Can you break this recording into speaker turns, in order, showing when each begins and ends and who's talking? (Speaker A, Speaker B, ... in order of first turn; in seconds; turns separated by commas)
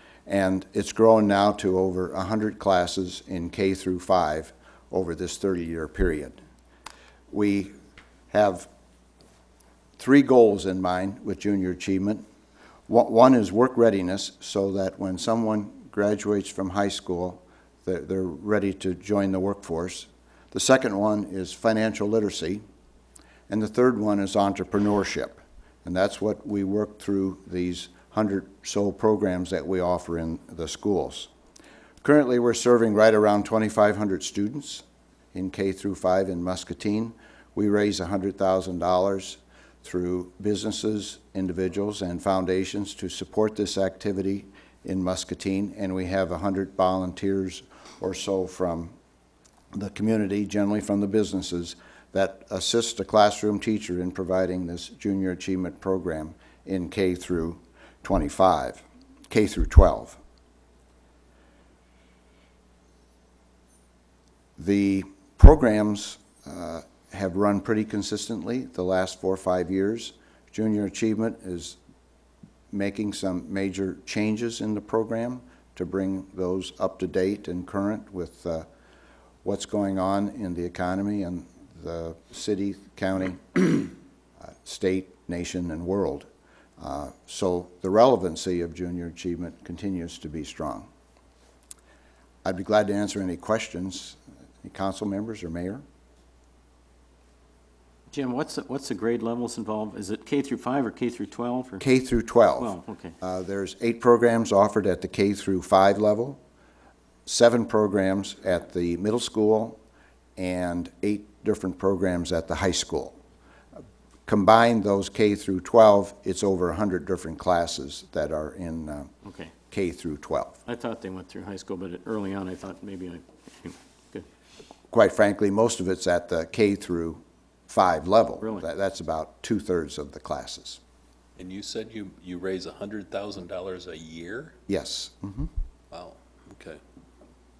Speaker A: 0.3-6.4, Speaker A: 7.3-7.7, Speaker A: 8.3-8.7, Speaker A: 10.0-12.2, Speaker A: 12.9-22.6, Speaker A: 23.5-31.3, Speaker A: 32.0-48.9, Speaker A: 49.7-60.2, Speaker A: 64.6-71.8, Speaker A: 72.7-78.7, Speaker A: 79.4-86.3, Speaker A: 86.8-90.9, Speaker A: 92.4-95.8, Speaker B: 98.1-101.8, Speaker A: 101.8-106.4, Speaker B: 102.6-103.2, Speaker A: 107.2-109.8, Speaker A: 110.4-113.2, Speaker A: 114.2-119.1, Speaker B: 119.2-119.5, Speaker A: 119.7-120.6, Speaker B: 120.7-124.3, Speaker A: 124.9-130.8, Speaker B: 128.4-128.7, Speaker C: 131.4-134.5, Speaker A: 134.7-135.5, Speaker C: 135.9-136.8